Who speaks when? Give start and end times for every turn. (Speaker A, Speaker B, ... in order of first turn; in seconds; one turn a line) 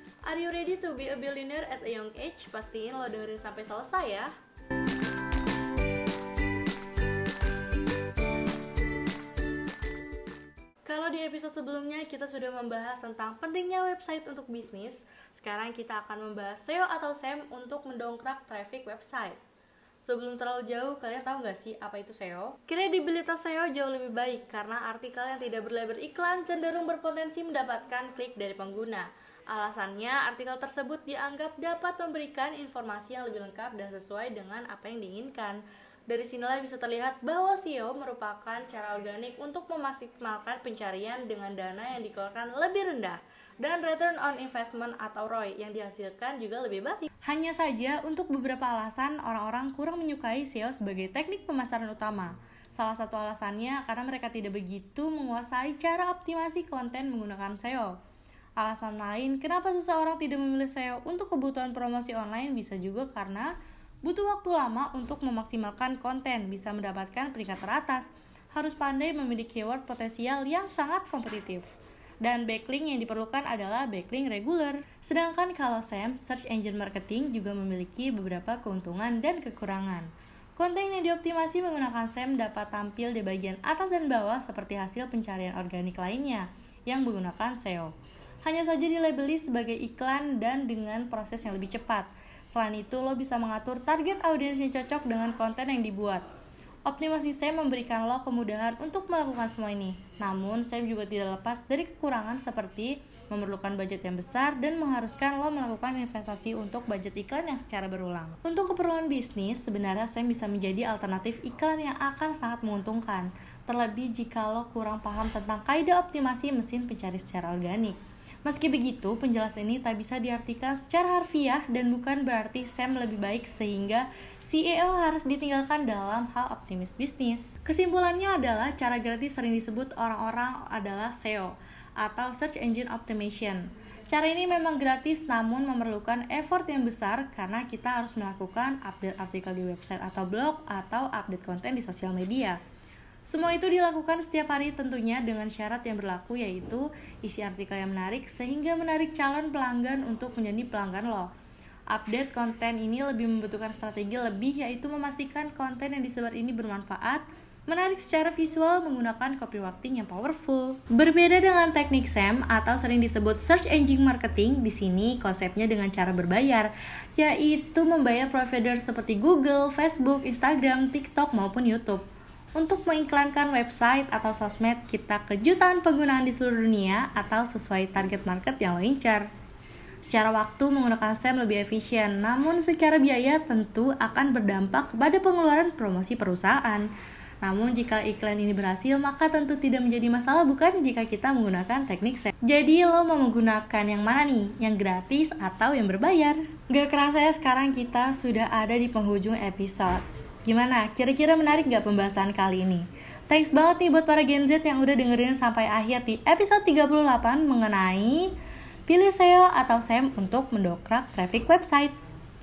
Speaker A: 0.2-4.3
Speaker A: 10.8-19.4
Speaker A: 20.0-58.0
Speaker A: 58.6-96.3
Speaker A: 96.9-142.6
Speaker A: 143.2-151.3
Speaker A: 151.9-179.3
Speaker A: 180.0-186.9
Speaker A: 187.4-208.3
Speaker A: 208.9-212.0